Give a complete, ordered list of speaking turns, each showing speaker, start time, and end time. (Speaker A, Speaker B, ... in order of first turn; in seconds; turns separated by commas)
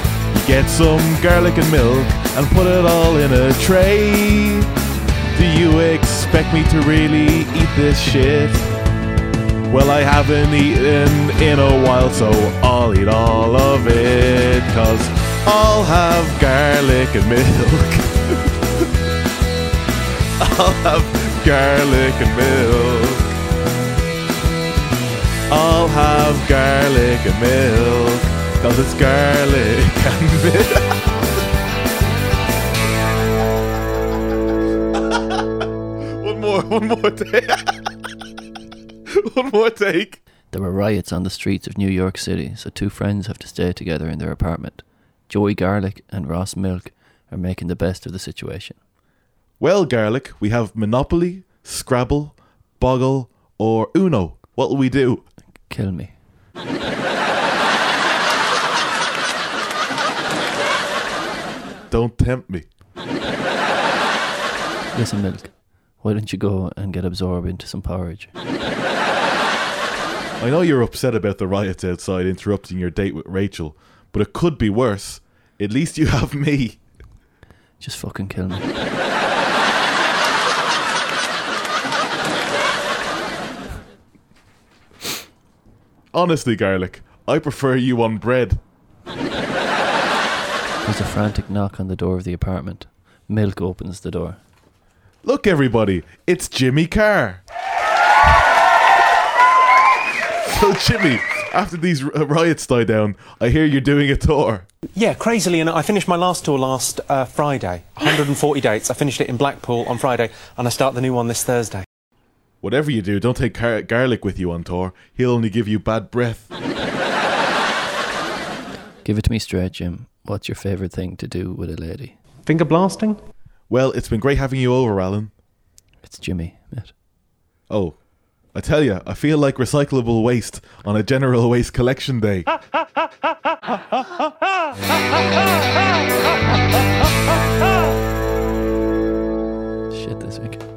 Speaker A: 0.3-4.7, Speaker A: 5.3-8.7, Speaker A: 9.7-18.8, Speaker A: 20.4-23.3, Speaker A: 25.5-31.0, Speaker A: 36.2-37.9, Speaker A: 39.3-40.2, Speaker B: 40.5-48.8, Speaker A: 49.6-55.3, Speaker B: 55.5-56.2, Speaker A: 61.9-62.7, Speaker B: 64.9-68.3, Speaker A: 70.4-76.9, Speaker B: 77.8-78.8, Speaker A: 86.1-88.6, Speaker B: 90.8-94.4, Speaker A: 95.2-97.4, Speaker A: 100.4-104.7, Speaker C: 105.0-111.9, Speaker A: 112.6-116.5, Speaker B: 119.0-122.2, Speaker C: 122.5-123.2, Speaker A: 123.7-125.4, Speaker B: 126.0-126.9, Speaker A: 127.7-132.6, Speaker B: 139.9-140.6